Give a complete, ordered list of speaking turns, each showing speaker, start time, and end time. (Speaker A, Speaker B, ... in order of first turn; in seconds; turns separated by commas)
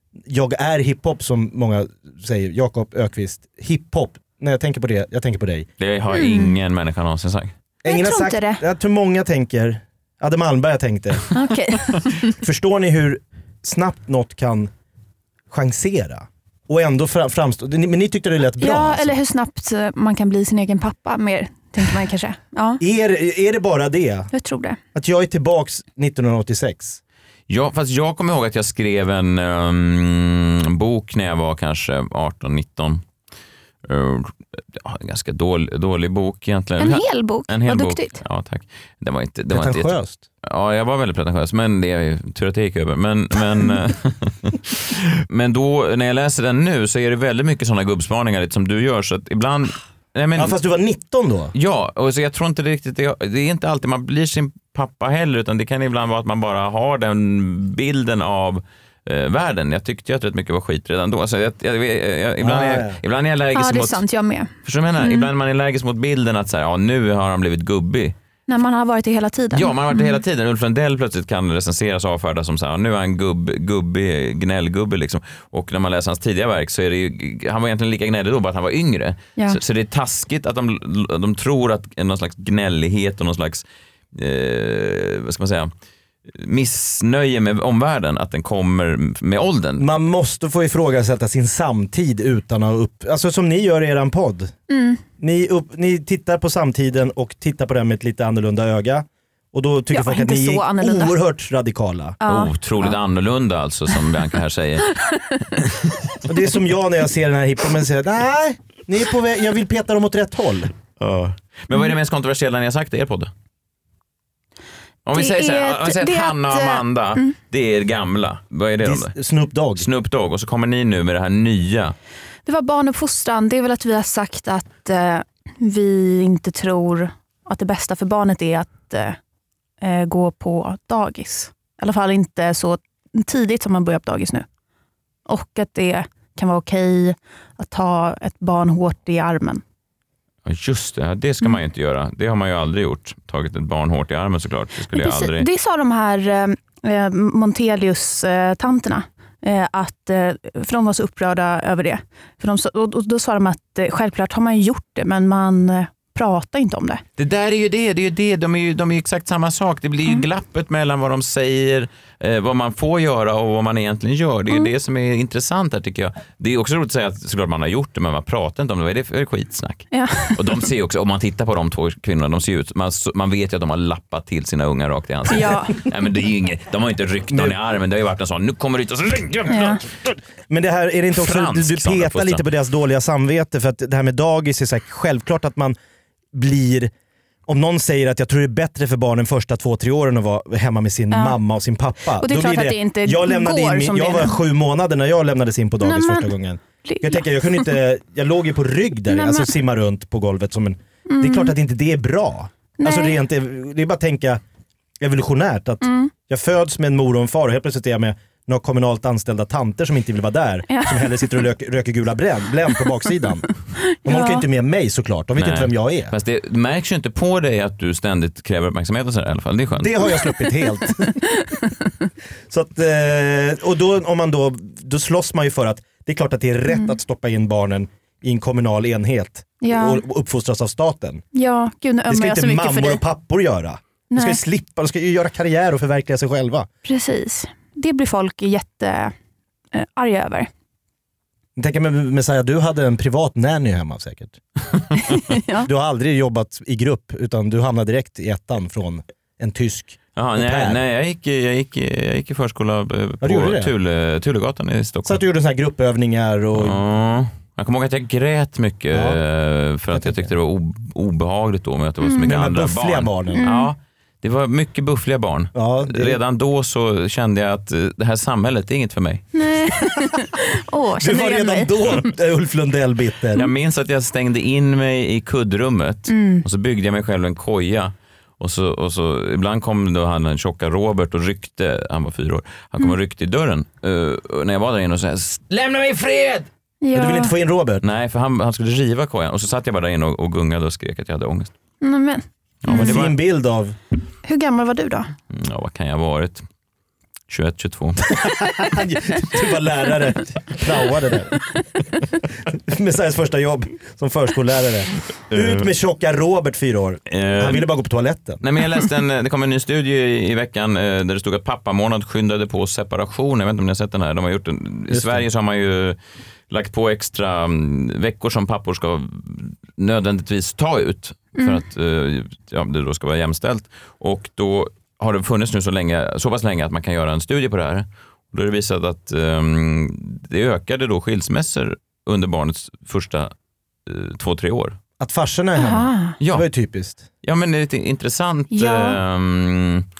Speaker A: 0.3-5.7, Speaker B: 5.8-7.5, Speaker C: 6.1-6.5, Speaker A: 7.8-11.2, Speaker C: 7.9-8.6, Speaker C: 11.3-12.4, Speaker A: 12.4-14.7, Speaker A: 15.5-19.1, Speaker C: 18.6-22.8, Speaker A: 22.8-24.3, Speaker C: 24.3-24.8, Speaker A: 24.9-27.0, Speaker B: 27.5-33.0, Speaker B: 33.9-50.6, Speaker C: 36.8-38.2, Speaker A: 39.5-40.2, Speaker A: 50.4-51.5, Speaker B: 51.5-64.0, Speaker A: 62.4-63.0, Speaker C: 63.5-65.3, Speaker B: 64.6-68.2, Speaker C: 68.5-70.2, Speaker B: 69.5-85.7, Speaker B: 86.3-89.9, Speaker A: 89.8-94.5, Speaker C: 94.7-95.0, Speaker A: 95.2-102.2, Speaker C: 99.9-101.2, Speaker C: 102.2-103.0, Speaker B: 102.3-104.9, Speaker C: 105.1-105.4, Speaker A: 106.2-110.7, Speaker B: 111.0-113.3, Speaker B: 115.1-119.2, Speaker C: 115.1-117.3, Speaker A: 118.8-119.9, Speaker B: 119.8-122.0, Speaker C: 122.5-129.2, Speaker C: 129.8-134.5, Speaker C: 135.3-139.6, Speaker B: 140.5-145.5, Speaker C: 144.9-157.0, Speaker B: 157.2-179.9, Speaker C: 169.9-170.6, Speaker C: 175.3-175.8, Speaker A: 177.3-177.6, Speaker C: 179.5-179.8, Speaker A: 180.5-185.8, Speaker B: 181.2-182.4, Speaker A: 186.3-186.9, Speaker A: 187.5-204.4, Speaker C: 191.1-191.4, Speaker C: 192.2-194.4, Speaker C: 195.8-196.3, Speaker C: 196.8-197.7, Speaker C: 199.1-199.5, Speaker C: 201.1-201.5, Speaker C: 202.8-203.2, Speaker A: 205.0-213.5, Speaker C: 205.8-206.1, Speaker C: 210.7-211.2, Speaker C: 214.0-214.4, Speaker A: 214.1-216.2, Speaker B: 215.4-220.0, Speaker A: 219.8-221.2, Speaker A: 222.5-231.2, Speaker C: 229.6-230.0, Speaker C: 231.3-233.0, Speaker A: 232.1-236.7, Speaker C: 234.1-234.4, Speaker C: 236.8-239.1, Speaker C: 239.7-240.5, Speaker A: 241.6-244.4, Speaker C: 245.0-245.7, Speaker A: 245.6-250.8, Speaker B: 250.2-255.2, Speaker A: 253.2-253.7, Speaker A: 255.1-256.8, Speaker B: 256.6-269.3, Speaker A: 258.9-259.2, Speaker A: 259.9-260.3, Speaker C: 262.0-262.3, Speaker A: 262.3-263.5, Speaker C: 263.4-263.7, Speaker A: 265.6-266.2, Speaker C: 269.4-272.1, Speaker A: 271.0-273.4, Speaker B: 273.4-286.5, Speaker C: 276.1-276.4, Speaker C: 286.8-287.3, Speaker A: 286.9-287.8, Speaker B: 287.8-291.5, Speaker C: 291.8-293.0, Speaker B: 292.6-293.2, Speaker A: 292.7-293.8, Speaker C: 294.2-295.1, Speaker B: 295.3-296.4, Speaker B: 297.3-298.1, Speaker A: 298.1-301.4, Speaker A: 302.5-308.4, Speaker B: 305.3-305.7, Speaker B: 307.1-307.7, Speaker B: 308.4-316.0, Speaker A: 314.9-315.2, Speaker B: 316.5-333.3, Speaker B: 333.9-334.8, Speaker A: 335.0-337.1, Speaker C: 335.6-336.2, Speaker B: 336.2-336.5, Speaker B: 337.2-339.9, Speaker C: 338.5-339.0